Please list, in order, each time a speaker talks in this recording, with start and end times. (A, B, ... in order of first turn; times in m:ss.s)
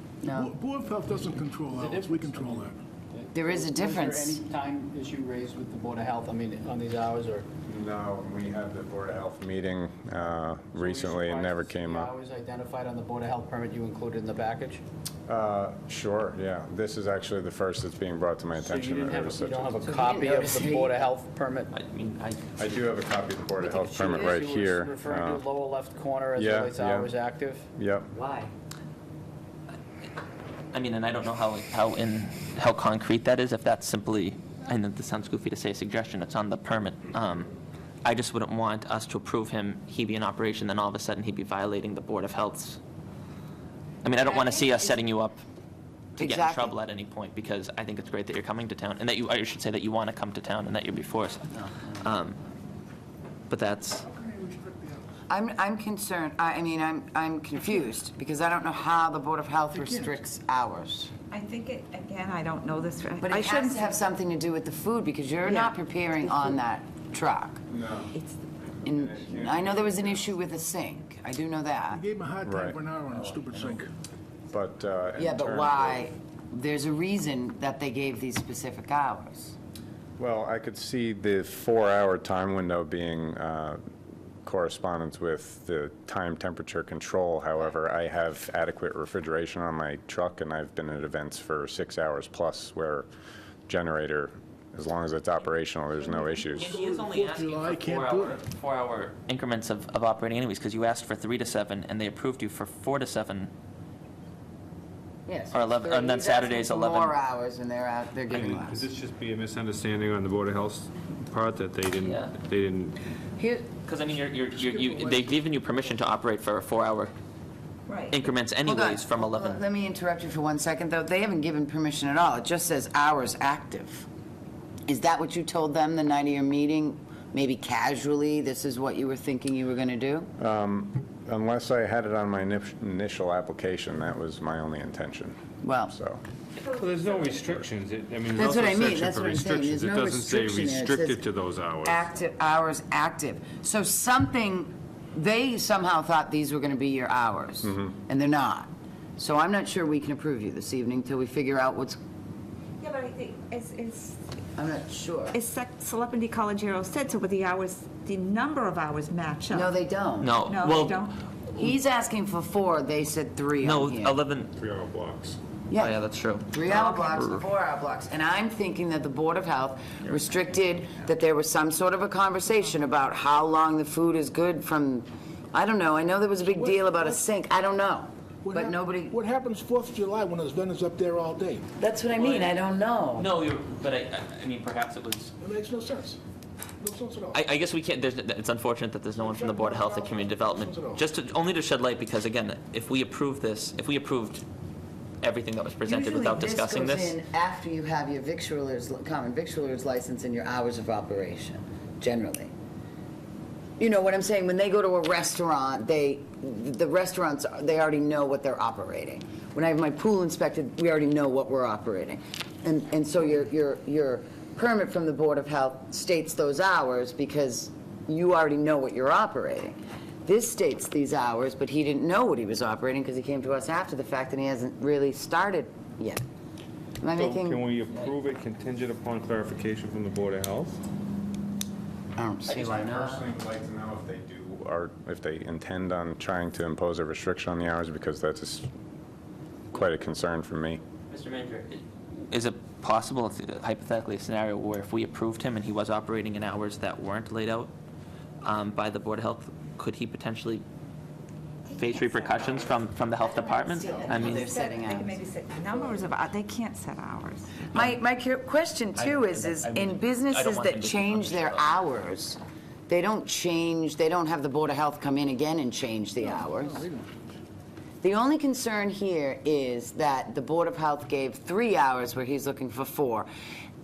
0:00.2-0:00.5 A
0:00.2-0:02.8 B
0:01.7-0:07.4 C
0:03.3-0:04.5 A
0:07.6-0:12.1 D
0:10.8-0:14.8 C
0:15.3-0:19.9 D
0:18.6-0:21.7 C
0:19.8-0:21.0 A
0:21.7-0:22.9 E
0:22.6-0:25.4 D
0:23.6-0:24.5 A
0:23.8-0:27.6 C
0:26.4-0:27.1 D
0:27.8-0:28.1 D
0:28.1-0:28.5 A
0:30.7-0:37.5 E
0:38.0-0:42.8 E
0:44.0-0:45.4 E
0:46.2-0:52.4 E
0:46.2-0:46.8 A
0:51.5-0:52.0 A
0:53.5-0:54.0 E
0:54.0-0:55.0 B
0:55.3-1:01.1 A
0:59.7-1:00.2 B
1:01.3-1:04.0 F
1:03.2-1:07.6 A
1:05.4-1:06.6 F
1:07.7-1:10.4 D
1:08.8-1:12.0 A
1:11.9-1:13.9 B
1:12.4-1:13.8 D
1:14.5-1:16.1 D
1:15.2-1:19.5 A
1:20.2-1:23.8 D
1:24.4-1:33.1 D
1:33.7-1:36.8 D
1:36.1-1:38.4 B
1:36.5-1:43.5 E
1:45.3-1:48.9 A
1:45.5-1:47.1 E
1:48.3-1:53.0 G
1:52.0-1:52.3 E
1:53.4-1:53.7 A
1:53.8-1:57.1 E
1:54.5-1:55.3 B
1:57.9-1:58.2 F
1:58.1-1:59.6 E
1:58.6-2:04.0 A
2:04.9-2:10.3 A
2:10.4-2:16.2 D
2:15.6-2:15.9 A
2:16.6-2:22.1 G
2:18.3-2:21.2 A
2:21.8-2:32.0 A
2:27.6-2:27.9 D
2:32.8-2:34.2 F
2:34.6-2:35.4 A
2:35.3-2:39.7 F
2:39.5-2:40.4 A
2:40.2-2:41.1 E
2:40.4-2:41.2 F
2:41.6-2:44.2 A
2:43.6-2:44.5 E
2:44.6-2:45.4 G
2:45.7-2:46.0 A
2:45.8-2:46.5 E
2:46.5-2:59.1 A
2:47.2-2:47.4 G
2:56.5-2:57.2 B
2:58.4-3:01.6 B
3:01.8-3:03.3 A
3:02.1-3:02.6 E
3:03.1-3:05.3 E
3:05.4-3:06.2 B
3:06.8-3:07.4 B
3:07.3-3:14.4 E
3:09.2-3:11.0 B
3:15.2-3:17.2 E
3:15.8-3:22.5 A
3:23.8-3:46.2 A
3:47.0-3:47.6 A
3:47.1-3:50.8 G
3:52.2-3:53.2 A
3:52.5-3:58.7 D
3:59.7-4:00.8 D
4:01.1-4:07.7 E
4:08.4-4:10.6 E
4:11.6-4:17.8 F
4:11.8-4:14.5 E
4:13.2-4:15.2 A
4:17.7-4:26.8 A
4:18.9-4:21.8 E
4:26.2-4:27.1 B
4:28.0-4:33.3 A